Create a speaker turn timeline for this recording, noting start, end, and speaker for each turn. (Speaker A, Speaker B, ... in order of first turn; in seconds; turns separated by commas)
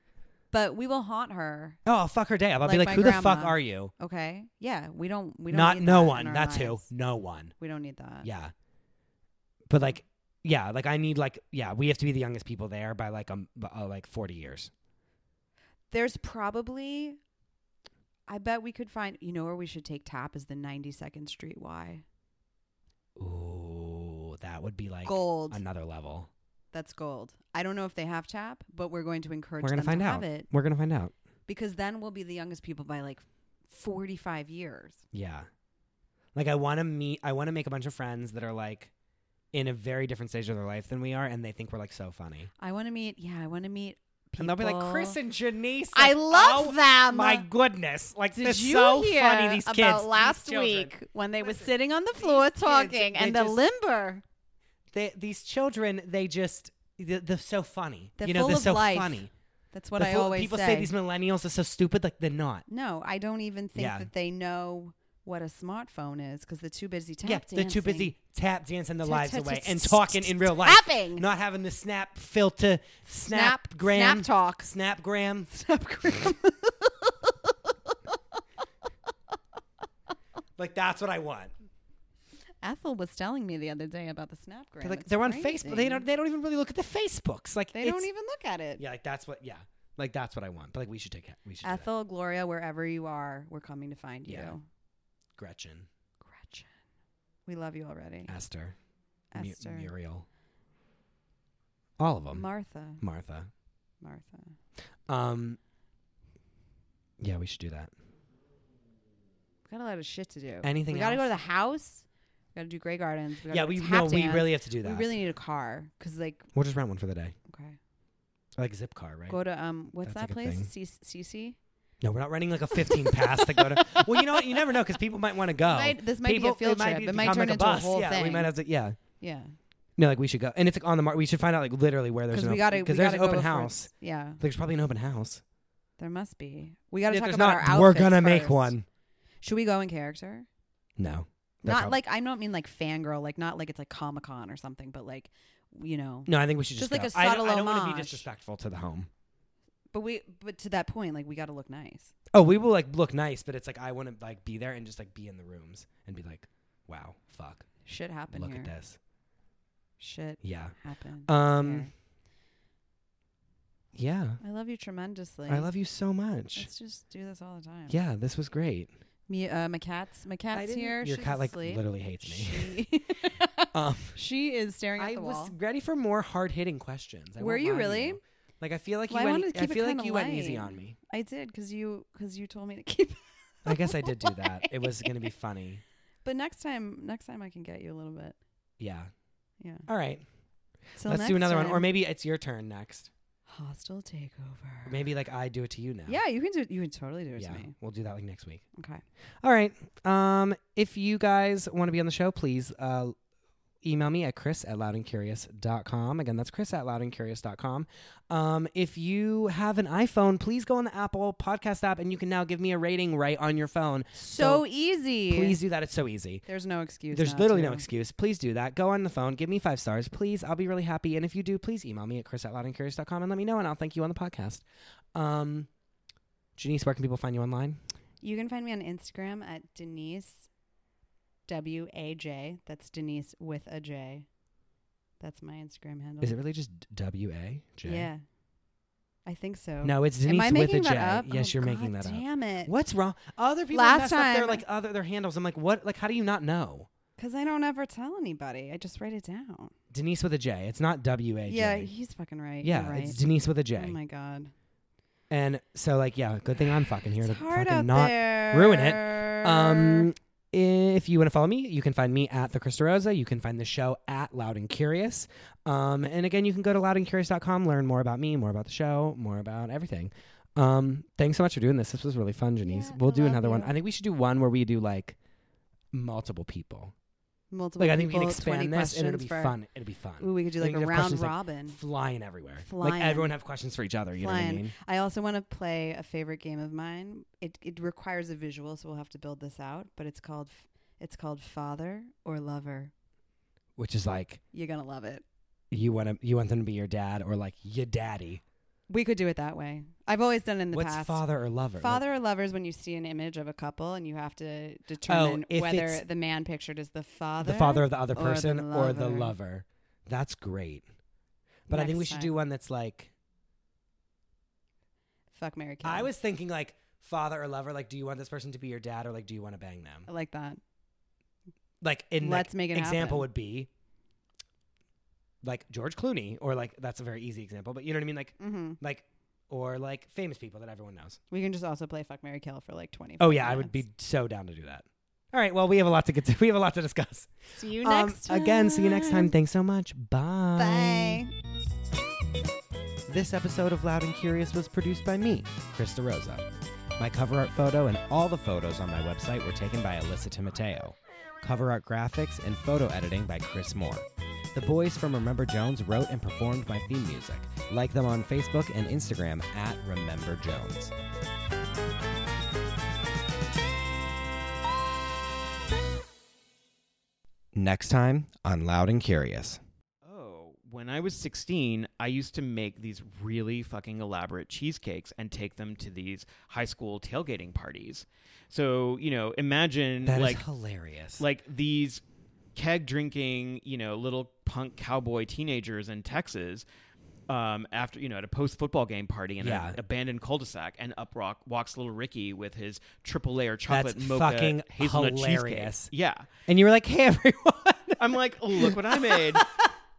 Speaker A: 0.5-1.8, Speaker B: 1.9-3.9, Speaker A: 2.6-6.8, Speaker B: 5.5-7.5, Speaker A: 7.6-8.3, Speaker B: 8.2-8.5, Speaker B: 9.7-14.7, Speaker A: 15.9-17.2, Speaker A: 18.3-22.0, Speaker B: 23.2-26.3, Speaker A: 25.0-25.6, Speaker A: 26.7-30.5, Speaker B: 29.6-31.1, Speaker A: 31.5-35.0, Speaker B: 35.1-35.5, Speaker B: 36.3-38.9, Speaker B: 39.5-42.5, Speaker A: 42.6-45.2, Speaker B: 44.4-53.6, Speaker A: 45.9-47.5, Speaker A: 48.3-54.2, Speaker B: 54.9-59.3, Speaker A: 58.2-60.9, Speaker B: 60.0-62.6, Speaker A: 62.7-68.1, Speaker B: 63.7-64.1, Speaker B: 67.2-75.5, Speaker A: 69.0-71.2, Speaker A: 73.2-74.7, Speaker A: 75.5-77.9, Speaker B: 80.6-81.5, Speaker A: 82.6-86.0, Speaker B: 84.8-88.1, Speaker A: 87.7-88.8, Speaker B: 88.8-91.9, Speaker A: 91.6-94.6, Speaker B: 94.2-94.5, Speaker B: 95.4-95.9, Speaker A: 96.2-96.7, Speaker A: 97.5-98.3, Speaker B: 98.3-98.8, Speaker A: 99.3-99.9, Speaker B: 99.3-100.2, Speaker B: 102.0-102.5, Speaker A: 102.3-103.0, Speaker B: 103.0-103.5, Speaker A: 104.0-104.5, Speaker B: 105.1-105.6, Speaker B: 107.2-107.9, Speaker A: 109.7-116.5, Speaker B: 110.6-111.2, Speaker B: 113.5-115.1, Speaker B: 116.5-117.3, Speaker A: 117.5-117.8, Speaker B: 118.5-119.4, Speaker A: 119.3-121.6, Speaker B: 120.0-120.7, Speaker B: 122.0-129.0, Speaker A: 122.8-124.6, Speaker A: 125.6-128.5, Speaker A: 129.2-129.5, Speaker B: 130.0-135.4, Speaker A: 132.3-134.4, Speaker A: 136.0-138.8, Speaker B: 137.1-138.8, Speaker A: 139.4-140.5, Speaker B: 141.0-142.0, Speaker A: 141.6-148.3, Speaker B: 146.2-149.1, Speaker A: 149.9-152.1, Speaker B: 152.3-157.7, Speaker A: 157.8-158.7, Speaker B: 158.3-159.0, Speaker A: 160.0-161.9, Speaker B: 160.4-160.7, Speaker B: 161.3-161.9, Speaker B: 163.9-164.4, Speaker A: 164.4-165.7, Speaker B: 165.5-166.7, Speaker A: 166.5-167.9, Speaker B: 167.9-168.9, Speaker A: 169.3-175.5, Speaker B: 170.5-172.8, Speaker B: 173.7-174.2, Speaker B: 175.0-181.0, Speaker A: 177.4-178.2, Speaker A: 179.1-185.3, Speaker B: 183.6-185.8, Speaker A: 186.2-188.3, Speaker B: 188.8-189.1, Speaker A: 189.6-189.9, Speaker B: 189.9-190.2, Speaker A: 191.0-191.9, Speaker B: 191.0-193.1, Speaker A: 193.5-195.0, Speaker B: 194.8-196.2, Speaker A: 196.1-197.7, Speaker B: 197.4-198.6, Speaker A: 198.8-199.0, Speaker B: 199.4-203.1, Speaker B: 203.8-214.6, Speaker A: 214.1-215.6, Speaker B: 215.3-216.4, Speaker A: 216.4-217.8, Speaker B: 217.1-224.6, Speaker B: 225.1-225.7, Speaker B: 226.6-227.8, Speaker A: 228.2-230.5, Speaker A: 231.5-234.2, Speaker A: 235.2-236.3, Speaker B: 236.2-238.1, Speaker A: 237.8-238.2, Speaker A: 239.2-242.7, Speaker B: 239.8-246.9, Speaker A: 243.7-244.6, Speaker A: 247.2-249.7, Speaker B: 249.9-251.9, Speaker A: 251.4-253.2, Speaker B: 252.6-254.0, Speaker A: 253.7-254.5, Speaker B: 255.3-275.1, Speaker A: 257.1-260.1, Speaker A: 272.6-273.7, Speaker B: 275.9-276.9, Speaker A: 277.5-279.6, Speaker B: 277.8-284.7, Speaker A: 280.2-281.8, Speaker A: 282.6-283.3, Speaker A: 284.1-292.9, Speaker B: 293.8-294.4, Speaker A: 294.5-295.2, Speaker B: 295.7-298.4, Speaker A: 298.9-301.2, Speaker B: 300.7-302.0, Speaker A: 301.8-309.3, Speaker B: 305.1-306.0, Speaker B: 307.4-310.8, Speaker B: 311.7-313.1, Speaker A: 311.7-312.3, Speaker A: 315.3-316.1, Speaker B: 315.8-320.1, Speaker A: 320.1-320.6, Speaker B: 321.8-323.7, Speaker A: 322.2-323.3, Speaker B: 325.4-331.2, Speaker A: 328.4-328.8, Speaker A: 331.3-333.8, Speaker B: 333.2-341.2, Speaker A: 337.5-339.3, Speaker A: 340.6-341.3, Speaker B: 343.1-346.4, Speaker B: 347.0-360.9, Speaker B: 367.5-369.6, Speaker C: 370.0-380.4, Speaker B: 380.0-381.2, Speaker C: 381.2-382.0, Speaker C: 382.5-386.6, Speaker C: 387.3-396.3, Speaker B: 389.4-389.8, Speaker B: 393.7-395.9, Speaker B: 396.5-399.7, Speaker C: 398.0-399.6